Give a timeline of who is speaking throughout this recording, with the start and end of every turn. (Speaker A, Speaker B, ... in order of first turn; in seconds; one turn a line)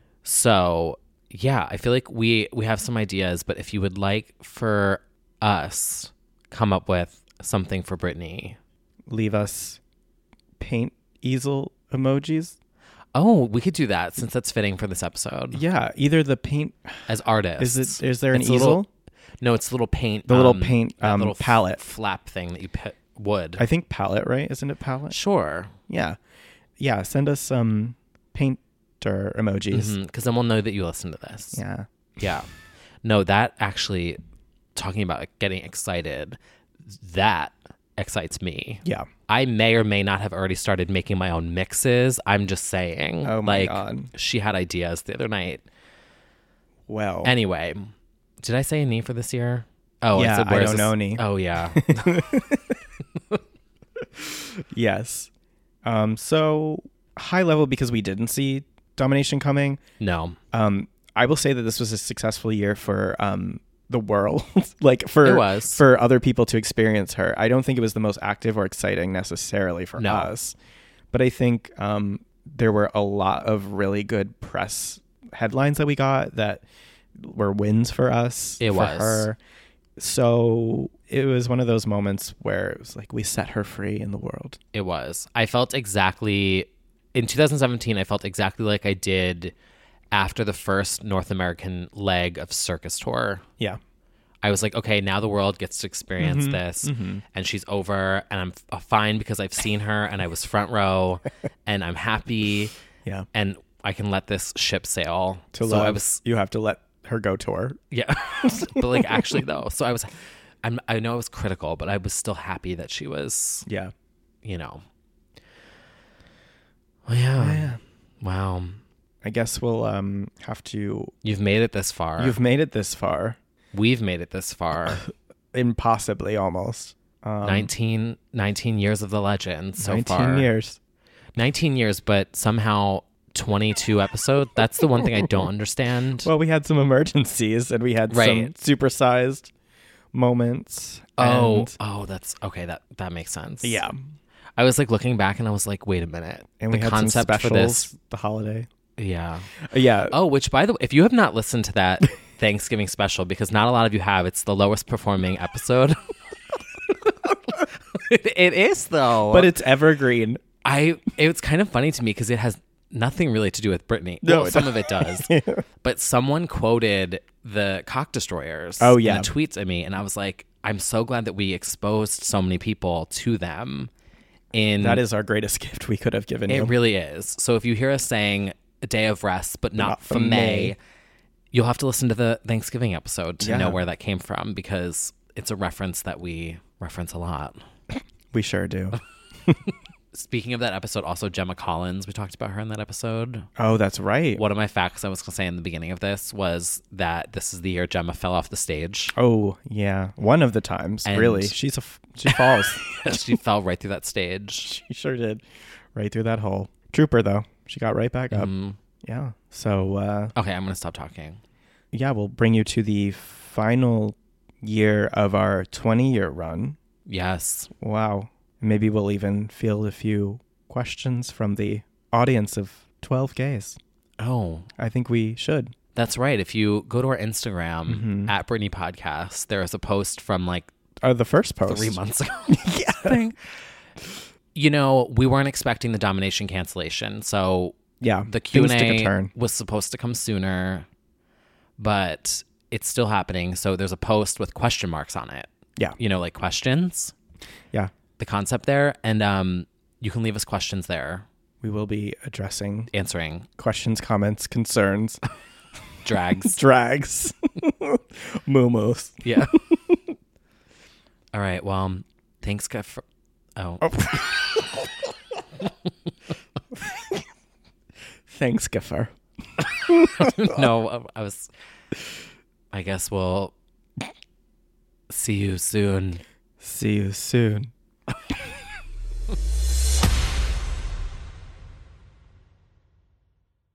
Speaker A: 0.2-8.6
Speaker B: 9.1-9.8
Speaker B: 10.6-12.5
Speaker A: 13.1-15.6
Speaker B: 15.5-17.0
Speaker A: 17.1-18.8
Speaker B: 17.6-18.9
Speaker A: 19.4-23.6
Speaker B: 20.3-21.8
Speaker B: 23.6-25.1
Speaker A: 25.1-25.7
Speaker B: 25.9-26.2
Speaker B: 26.8-29.9
Speaker A: 29.7-31.6
Speaker B: 31.5-31.9
Speaker A: 32.2-32.5
Speaker A: 33.0-34.2
Speaker A: 34.7-45.6
Speaker B: 43.2-44.1
Speaker B: 46.9-47.3
Speaker A: 47.2-52.1
Speaker B: 50.1-52.7
Speaker B: 54.2-55.3
Speaker B: 55.8-59.8
Speaker A: 60.0-60.4
Speaker B: 60.5-70.5
Speaker A: 65.2-65.8
Speaker A: 70.0-70.3
Speaker B: 71.1-76.6
Speaker B: 77.2-79.4
Speaker A: 78.6-79.3
Speaker B: 80.0-84.6
Speaker A: 84.7-89.5
Speaker A: 90.1-93.4
Speaker A: 94.4-102.7
Speaker B: 96.2-97.2
Speaker A: 103.3-106.2
Speaker B: 105.5-107.8
Speaker A: 107.9-113.7
Speaker B: 108.9-109.2
Speaker B: 113.7-113.9
Speaker A: 114.4-114.8
Speaker A: 117.0-118.8
Speaker B: 117.4-117.8
Speaker B: 119.2-121.1
Speaker A: 121.2-122.4
Speaker B: 122.2-123.4
Speaker A: 123.7-125.0
Speaker B: 125.5-127.7
Speaker A: 127.4-130.5
Speaker B: 129.8-130.8
Speaker A: 131.3-136.3
Speaker B: 136.2-139.5
Speaker A: 138.1-138.5
Speaker B: 140.1-141.7
Speaker A: 141.2-143.8
Speaker B: 143.6-144.0
Speaker A: 144.6-147.9
Speaker B: 146.6-148.7
Speaker A: 149.0-149.5
Speaker B: 149.6-150.2
Speaker A: 150.1-156.0
Speaker A: 156.9-159.5
Speaker B: 159.3-160.4
Speaker A: 160.6-173.9
Speaker B: 164.2-165.6
Speaker B: 168.8-169.3
Speaker A: 174.5-175.0
Speaker B: 174.8-176.7
Speaker A: 176.5-180.8
Speaker B: 179.8-180.7
Speaker A: 181.5-187.6
Speaker B: 183.4-183.8
Speaker B: 188.3-189.6
Speaker A: 190.1-193.5
Speaker B: 193.6-194.4
Speaker A: 194.3-199.1
Speaker B: 199.2-202.9
Speaker A: 201.0-201.6
Speaker A: 202.2-204.7
Speaker B: 204.6-205.4
Speaker B: 205.9-208.5
Speaker A: 208.3-208.8
Speaker B: 209.0-210.3
Speaker A: 210.3-211.4
Speaker B: 211.9-216.8
Speaker A: 217.1-217.7
Speaker B: 217.8-223.8
Speaker A: 224.2-224.7
Speaker B: 224.8-225.7
Speaker A: 225.9-230.7
Speaker B: 227.9-228.3
Speaker B: 231.0-232.0
Speaker A: 231.6-233.4
Speaker B: 232.5-233.3
Speaker A: 234.5-240.9
Speaker B: 238.0-239.3
Speaker A: 241.8-247.1
Speaker A: 248.2-251.3
Speaker B: 251.6-252.9
Speaker A: 252.9-253.5
Speaker B: 253.6-255.2
Speaker A: 256.0-256.6
Speaker B: 256.5-259.2
Speaker A: 259.2-259.5
Speaker A: 261.3-263.0
Speaker A: 263.6-264.2
Speaker B: 263.8-264.6
Speaker B: 268.3-269.1
Speaker B: 269.9-270.5
Speaker A: 270.0-271.5
Speaker A: 272.7-273.5
Speaker A: 275.1-276.2
Speaker B: 276.6-277.7